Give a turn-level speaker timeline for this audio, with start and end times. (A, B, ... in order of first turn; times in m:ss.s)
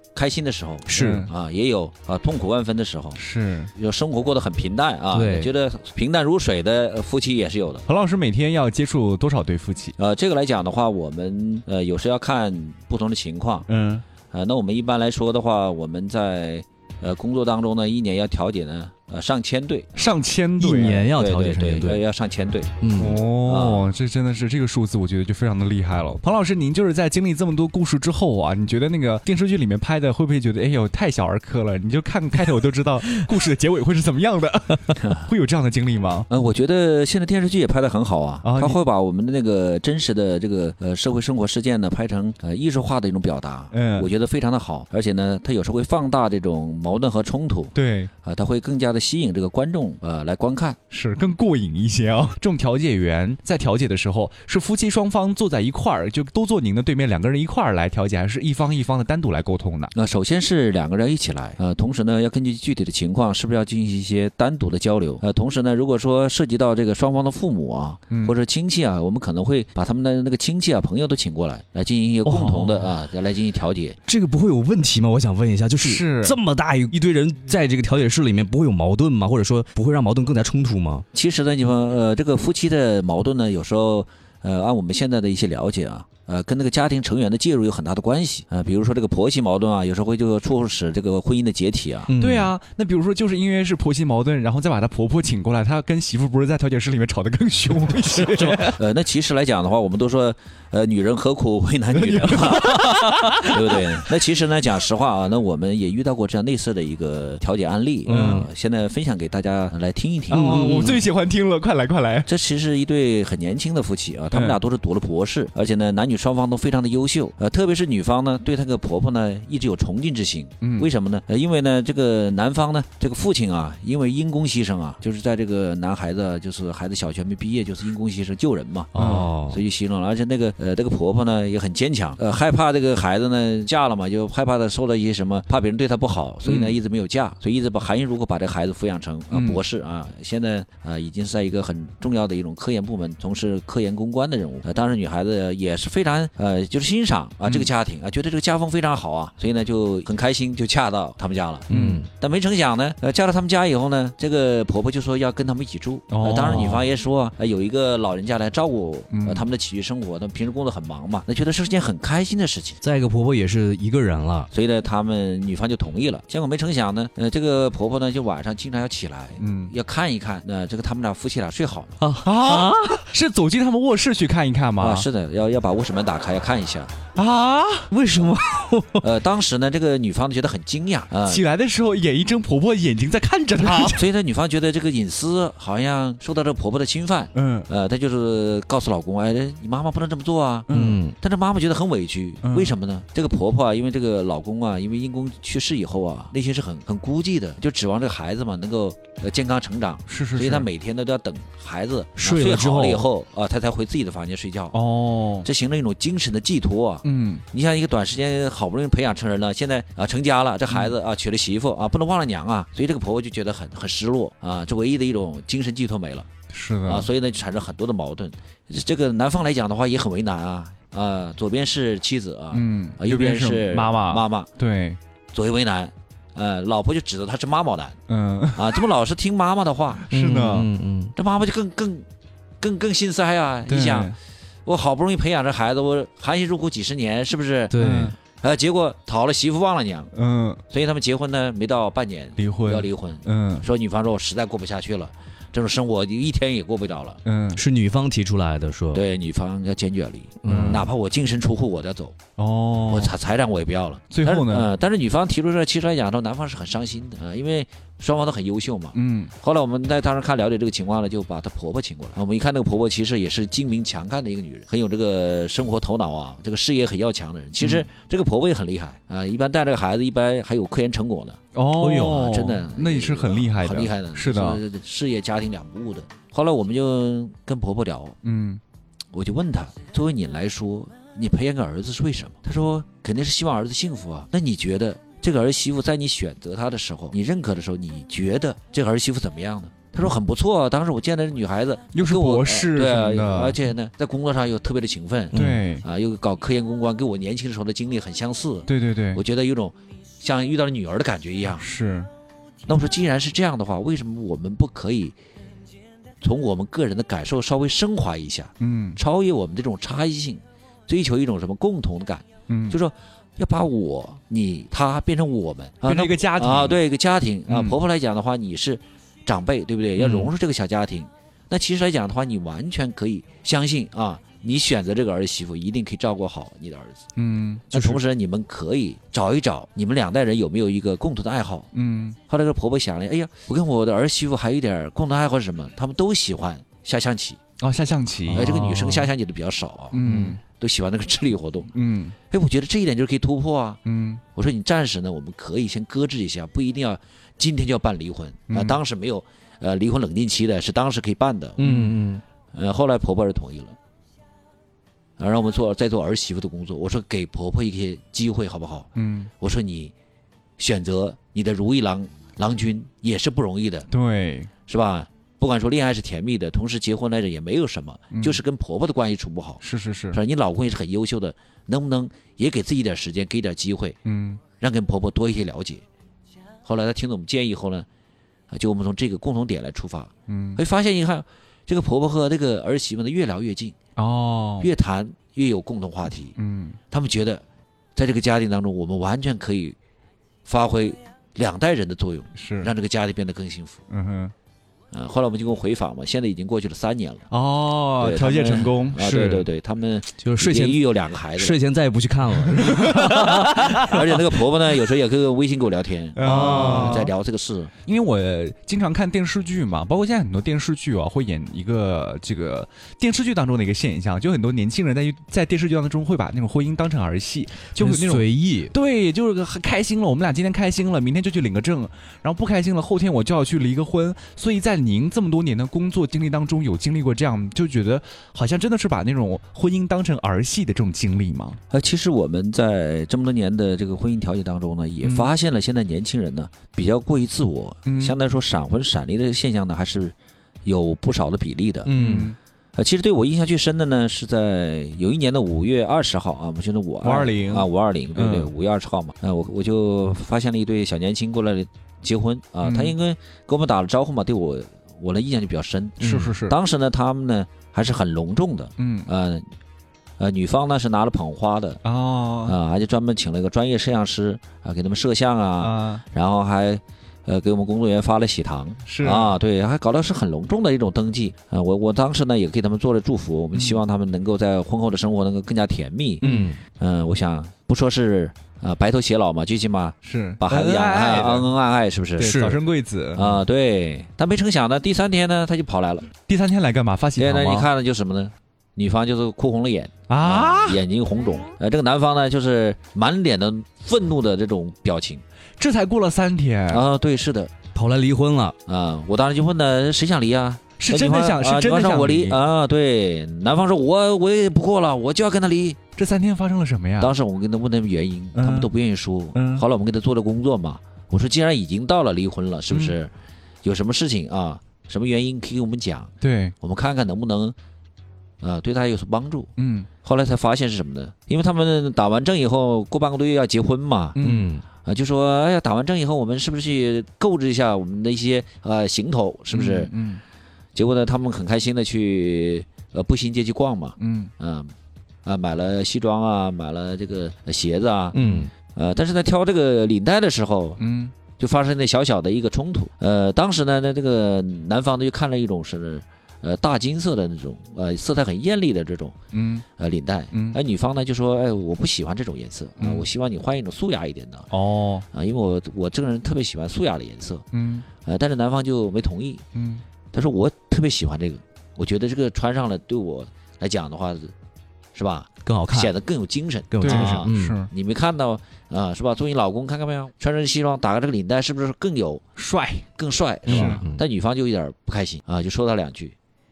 0:00.2-0:03.2 A
0:00.9-0:01.3 B
0:00.9-0:01.3 C
0:03.2-0:03.7 C
0:03.7-0:07.9 A
0:05.1-0:05.5 B
0:07.9-0:10.0 C
0:10.0-0:13.7 A
0:13.7-0:14.0 C
0:14.3-0:20.0 A
0:20.0-0:21.1 C
0:20.6-0:22.0 B
0:21.1-0:23.9 A
0:22.8-0:23.2 B
0:23.0-0:36.3 C
0:35.0-0:35.3 A
0:36.3-0:50.8 A
0:38.4-0:38.8 C
0:43.7-0:44.1 C
0:47.7-0:48.1 C
0:50.9-0:59.9 C
1:00.0-1:14.0 A
1:08.1-1:08.4 C
1:12.3-1:12.9 C
1:14.1-1:21.0 B
1:15.8-1:16.4 C
1:21.1-1:32.1 A
1:32.1-1:32.5 B
1:32.2-1:38.8 C
1:38.1-1:42.9 A
1:41.9-1:43.9 C
1:43.4-1:50.9 A
1:48.1-1:48.4 B
1:48.1-1:48.4 C
1:50.3-1:52.3 C
1:50.3-1:51.0 B
1:52.3-2:42.8 A
1:54.3-1:54.6 C
2:00.6-2:00.9 C
2:08.9-2:09.6 B
2:09.0-2:09.3 C
2:16.5-2:16.7 B
2:19.3-2:19.6 C
2:31.7-2:32.0 C
2:31.7-2:32.1 B
2:36.1-2:36.8 C
2:36.5-2:36.8 B
2:39.1-2:39.4 C
2:42.8-2:44.5 B
2:44.5-2:52.0 A
2:49.4-2:49.7 C
2:52.0-2:53.0 B
2:52.2-2:55.1 C
2:54.8-2:56.9 A
2:57.2-2:57.9 C
2:57.9-2:59.1 B
2:59.0-3:01.4 A
3:01.2-3:04.0 C
3:03.8-3:24.8 A
3:07.3-3:07.7 C
3:10.7-3:11.0 C
3:10.7-3:11.1 B
3:12.4-3:12.7 C
3:20.1-3:20.7 C
3:22.2-3:23.1 B
3:24.7-3:25.5 C
3:25.4-3:36.3 A
3:27.0-3:27.4 C
3:36.5-3:37.1 C
3:36.8-3:44.5 A
3:42.5-3:45.0 C
3:45.3-3:48.0 A
3:48.1-3:48.8 C
3:48.6-3:50.0 A
3:50.1-3:50.7 C
3:50.1-3:51.1 B
3:51.2-3:52.1 A
3:52.6-3:54.1 A
3:53.7-3:54.2 C
3:54.6-3:57.8 A
3:57.7-3:58.1 B
3:57.8-3:58.1 C
3:58.4-4:00.1 A
4:00.1-4:00.6 C
4:00.7-4:07.2 A
4:02.4-4:03.7 C
4:07.2-4:07.6 C
4:07.6-4:09.0 B
4:08.9-4:12.2 A
4:10.4-4:10.9 B
4:10.4-4:10.9 C
4:12.4-4:13.1 C
4:12.9-4:31.4 A
4:14.1-4:14.7 C
4:18.9-4:19.3 C
4:27.6-4:27.9 C
4:31.6-4:34.6 C
4:31.8-4:32.2 B
4:32.0-4:38.2 A
4:38.2-4:38.6 C
4:39.1-5:01.6 A
4:51.9-4:53.6 C
4:55.3-4:55.6 B
4:55.3-4:55.8 C
4:58.7-4:59.2 C
5:01.6-5:02.1 C
5:02.6-5:05.2 A
5:06.2-5:27.0 A
5:08.6-5:09.0 C
5:12.5-5:12.8 C
5:15.8-5:16.8 C
5:17.5-5:17.8 C
5:20.0-5:20.3 C
5:27.2-5:28.0 C
5:27.7-5:31.7 A
5:31.7-5:32.2 C
5:32.3-5:37.4 A
5:37.6-5:39.1 C
5:38.3-5:41.7 A
5:39.9-5:40.4 C
5:40.0-5:40.3 B
5:41.7-5:42.2 C
5:42.3-5:43.8 A
5:43.8-5:44.2 C
5:44.4-5:51.6 A
5:48.5-5:48.8 C
5:51.6-5:52.2 B
5:51.6-5:52.0 C
5:52.5-5:53.8 A
5:55.2-5:59.9 A
5:59.0-5:59.3 C
6:00.6-6:03.9 A
6:03.9-6:04.5 C
6:04.7-6:14.0 A
6:08.1-6:08.4 C
6:09.6-6:10.2 C
6:14.0-6:14.4 C
6:14.6-6:15.8 A
6:16.6-6:17.9 A
6:18.5-6:23.8 A
6:20.3-6:20.6 C
6:24.0-6:24.7 C
6:24.6-6:26.4 A
6:26.4-6:26.8 C
6:26.9-6:27.4 A
6:28.0-6:29.8 A
6:30.5-6:33.8 A
6:32.4-6:32.7 C
6:33.9-6:34.3 C
6:34.9-6:37.3 A
6:37.3-6:39.0 C
6:38.0-6:41.6 A
6:39.0-6:39.5 B
6:40.2-6:40.8 B
6:41.3-6:44.3 B
6:42.5-6:43.3 C
6:42.9-6:47.7 A
6:46.2-6:47.1 C
6:46.2-6:47.1 B
6:47.9-7:11.6 C
6:57.8-6:58.7 B
7:11.7-7:21.9 A
7:15.0-7:15.3 C
7:17.9-7:18.2 C
7:21.9-7:22.3 B
7:21.9-7:22.4 C
7:22.8-7:39.5 A
7:27.0-7:28.5 C
7:32.6-7:33.0 C
7:36.0-7:36.6 C
7:36.0-7:36.3 B
7:38.8-7:39.1 C
7:40.2-7:41.8 A
7:41.8-7:42.6 C
7:42.4-8:02.4 A
7:45.6-7:46.0 C
7:48.9-7:49.4 C
7:53.5-7:53.8 C
7:56.2-7:56.5 C
7:56.2-7:56.6 B
8:00.0-8:01.5 C
8:02.2-8:03.4 C
8:02.2-8:02.6 B
8:03.2-8:06.1 A
8:06.3-8:07.7 C
8:07.2-8:15.2 A
8:10.1-8:10.8 C
8:15.6-8:16.8 C
8:16.7-8:17.5 A
8:17.7-8:18.6 B
8:18.7-8:25.8 A
8:20.8-8:22.4 C
8:26.0-8:27.1 C
8:27.0-8:33.1 A
8:28.4-8:28.7 C
8:29.3-8:29.6 C
8:32.7-8:33.0 C
8:33.6-8:37.6 A
8:36.2-8:36.5 C
8:38.4-8:39.5 A
8:39.6-8:39.9 C
8:40.0-8:44.2 A
8:44.2-8:44.5 C
8:44.2-8:44.6 B
8:44.8-8:49.9 A
8:49.5-8:50.2 C
8:50.8-8:54.7 A
8:54.0-8:54.3 C
8:55.2-9:09.2 A
8:58.1-8:58.5 B
9:00.8-9:01.1 C
9:09.3-9:09.6 C
9:09.8-9:14.5 A
9:10.3-9:10.6 C
9:12.8-9:13.1 C
9:14.5-9:15.1 C
9:15.1-9:17.5 A
9:17.5-9:17.9 C
9:18.0-9:19.4 A
9:19.6-9:19.8 C
9:20.1-9:24.3 A
9:24.9-9:32.2 A
9:25.5-9:25.9 B
9:26.7-9:27.6 B
9:26.8-9:27.7 C
9:32.4-9:32.9 C
9:33.0-9:36.2 A
9:33.5-9:34.0 B
9:33.5-9:33.8 C